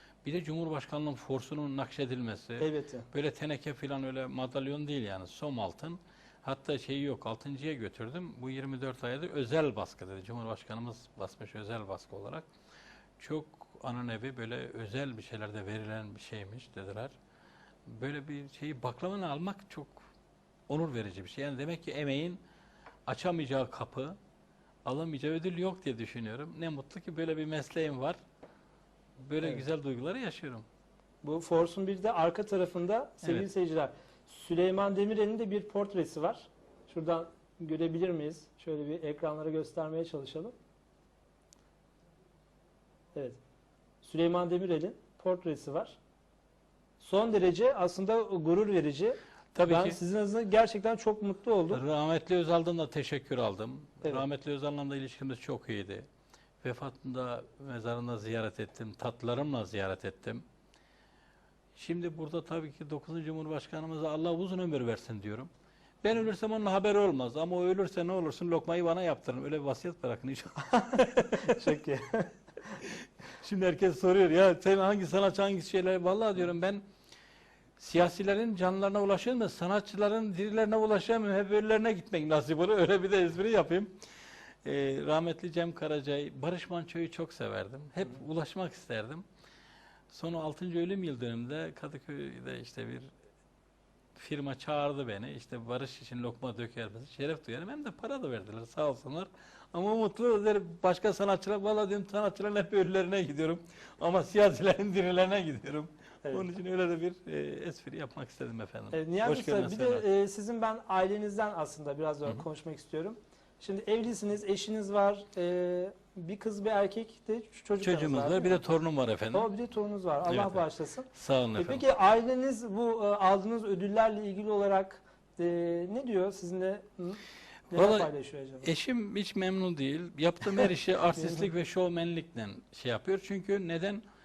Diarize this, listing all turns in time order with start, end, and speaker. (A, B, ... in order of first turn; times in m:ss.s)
0:00.2-0:12.5 A
0:02.6-0:03.1 B
0:13.2-0:17.1 A
0:17.9-0:20.0 A
0:20.7-0:22.4 A
0:23.1-0:24.2 A
0:24.8-0:28.2 A
0:29.2-0:30.6 A
0:31.2-0:40.6 B
0:44.0-0:46.0 B
0:47.0-0:51.8 B
0:49.6-0:50.0 A
0:51.7-0:56.1 A
0:56.6-1:00.4 A
1:01.8-1:05.5 A
1:06.0-1:11.6 A
1:11.4-1:12.3 B
1:12.8-1:16.8 A
1:17.8-1:24.0 A
1:24.6-1:29.2 A
1:30.1-1:33.1 A
1:34.2-1:50.0 A
1:48.9-1:58.6 B
1:57.8-1:59.5 A
1:59.3-2:08.7 B
2:00.3-2:01.8 A
2:07.7-2:08.1 A
2:08.6-2:14.0 A